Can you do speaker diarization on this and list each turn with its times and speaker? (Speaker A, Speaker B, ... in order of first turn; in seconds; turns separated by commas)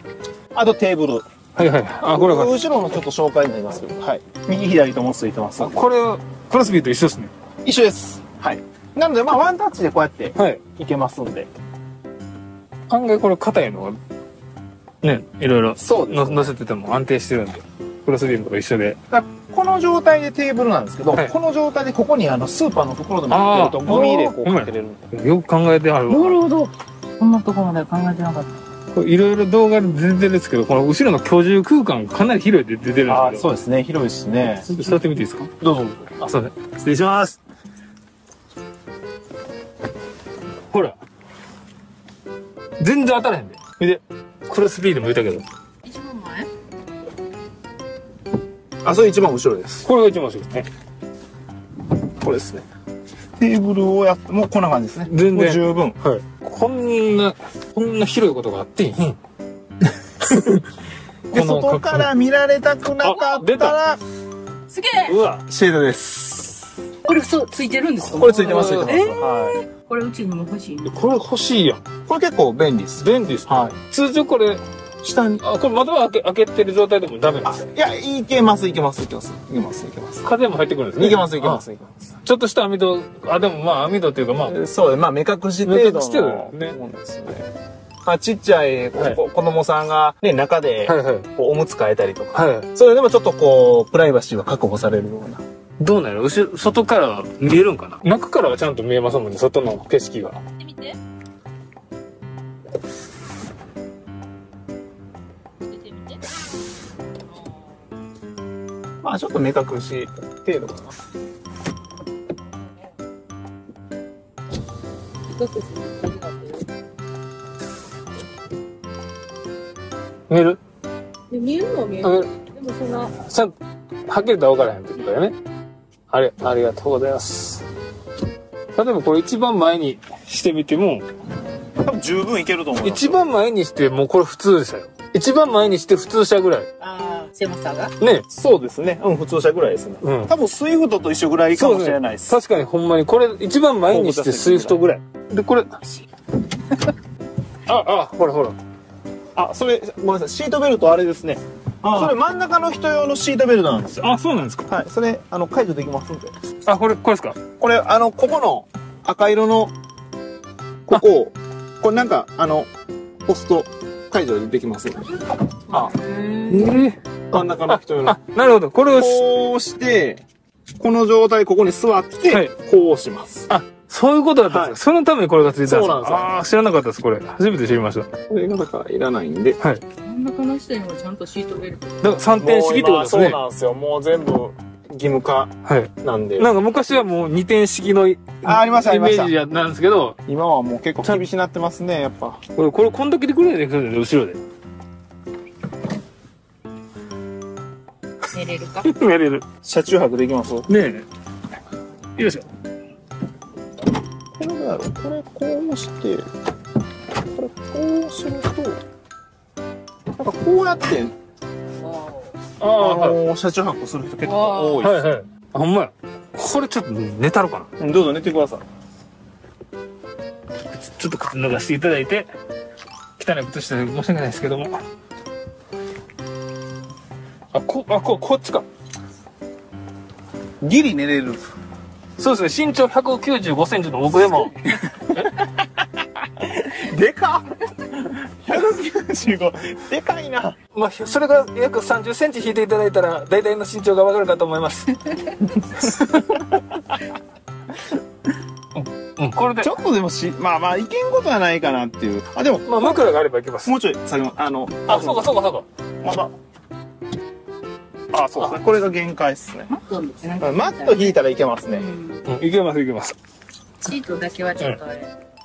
Speaker A: 0.5-1.2, Speaker B: 1.6-2.5, Speaker A: 2.1-5.8, Speaker B: 5.6-7.3, Speaker A: 7.6-11.5, Speaker B: 10.3-10.6, Speaker B: 12.9-14.0, Speaker B: 15.0-19.0, Speaker A: 15.8-16.5, Speaker A: 19.1-25.1, Speaker B: 23.3-26.4, Speaker C: 23.9-24.3, Speaker C: 26.1-28.5, Speaker B: 28.9-33.5, Speaker A: 33.1-34.7, Speaker C: 34.7-35.0, Speaker B: 34.7-35.5, Speaker A: 35.6-36.2, Speaker B: 36.2-37.4, Speaker B: 40.7-41.0, Speaker B: 42.8-45.4, Speaker C: 45.8-46.5, Speaker A: 48.8-49.9, Speaker B: 49.8-50.7, Speaker A: 52.2-52.7, Speaker A: 53.4-56.0, Speaker B: 55.0-59.2, Speaker B: 60.2-60.6, Speaker A: 61.3-64.0, Speaker B: 61.3-62.1, Speaker B: 63.0-63.8, Speaker C: 64.7-65.1, Speaker B: 65.1-65.4, Speaker A: 65.5-66.7, Speaker C: 67.0-70.9, Speaker A: 68.0-69.5, Speaker B: 68.2-69.0, Speaker B: 70.8-71.8, Speaker A: 72.0-73.8, Speaker B: 73.0-74.6, Speaker A: 75.0-75.4, Speaker B: 75.4-77.6, Speaker A: 77.4-80.3, Speaker B: 80.2-81.6, Speaker A: 81.0-82.1, Speaker B: 82.2-84.5, Speaker A: 84.5-87.5, Speaker B: 85.6-86.8, Speaker A: 88.0-95.4, Speaker B: 90.8-91.3, Speaker B: 92.3-92.7, Speaker B: 95.8-100.4, Speaker C: 100.6-101.0, Speaker C: 105.7-106.2, Speaker A: 109.0-111.0, Speaker C: 115.3-116.7, Speaker B: 120.3-120.6, Speaker C: 121.3-123.1, Speaker B: 122.0-122.3, Speaker B: 123.2-123.5, Speaker B: 124.1-125.3, Speaker B: 126.1-127.6, Speaker B: 128.7-131.1, Speaker A: 131.8-133.2, Speaker B: 132.8-136.7, Speaker C: 136.8-137.9, Speaker A: 136.8-137.3, Speaker B: 138.0-138.2, Speaker A: 138.3-142.4, Speaker B: 140.0-140.3, Speaker B: 141.6-145.8, Speaker A: 143.9-144.8, Speaker B: 147.7-148.6, Speaker A: 149.3-154.1, Speaker B: 151.8-152.1, Speaker B: 154.0-154.7, Speaker A: 154.7-156.3, Speaker B: 156.6-157.4, Speaker A: 157.6-159.7, Speaker A: 160.9-162.7, Speaker A: 163.2-165.1, Speaker C: 165.7-166.8, Speaker B: 166.5-169.2, Speaker A: 167.3-168.2, Speaker A: 168.9-170.2, Speaker A: 170.8-173.5, Speaker B: 173.5-178.1, Speaker A: 174.5-174.8, Speaker A: 175.6-176.3, Speaker A: 178.3-179.6, Speaker C: 180.0-182.1, Speaker B: 182.0-183.4, Speaker A: 182.4-186.5, Speaker B: 185.7-190.2, Speaker A: 188.4-189.3, Speaker A: 190.3-192.4, Speaker B: 192.5-194.4, Speaker C: 198.3-198.9, Speaker B: 198.8-199.4, Speaker A: 199.6-200.7, Speaker B: 200.7-201.0, Speaker B: 202.2-202.4, Speaker A: 204.4-206.3, Speaker A: 207.3-208.8, Speaker A: 210.2-211.1, Speaker C: 211.8-212.3, Speaker B: 212.6-213.2, Speaker A: 212.6-215.0, Speaker C: 214.2-214.8, Speaker B: 214.8-217.7, Speaker A: 217.8-218.6, Speaker B: 220.7-222.3, Speaker B: 223.2-224.8, Speaker B: 227.5-228.7, Speaker A: 230.6-231.4, Speaker B: 232.2-234.6, Speaker A: 236.4-240.6, Speaker B: 240.7-244.9, Speaker B: 245.8-246.3, Speaker A: 246.3-246.9, Speaker B: 248.7-249.7, Speaker A: 249.6-253.0, Speaker B: 252.7-253.7, Speaker A: 253.6-255.3, Speaker B: 254.8-255.7, Speaker A: 256.0-256.3, Speaker B: 258.1-258.6, Speaker A: 258.3-259.7, Speaker C: 259.7-261.1, Speaker A: 260.4-261.9, Speaker C: 261.7-262.2, Speaker B: 262.2-263.1, Speaker C: 263.8-265.1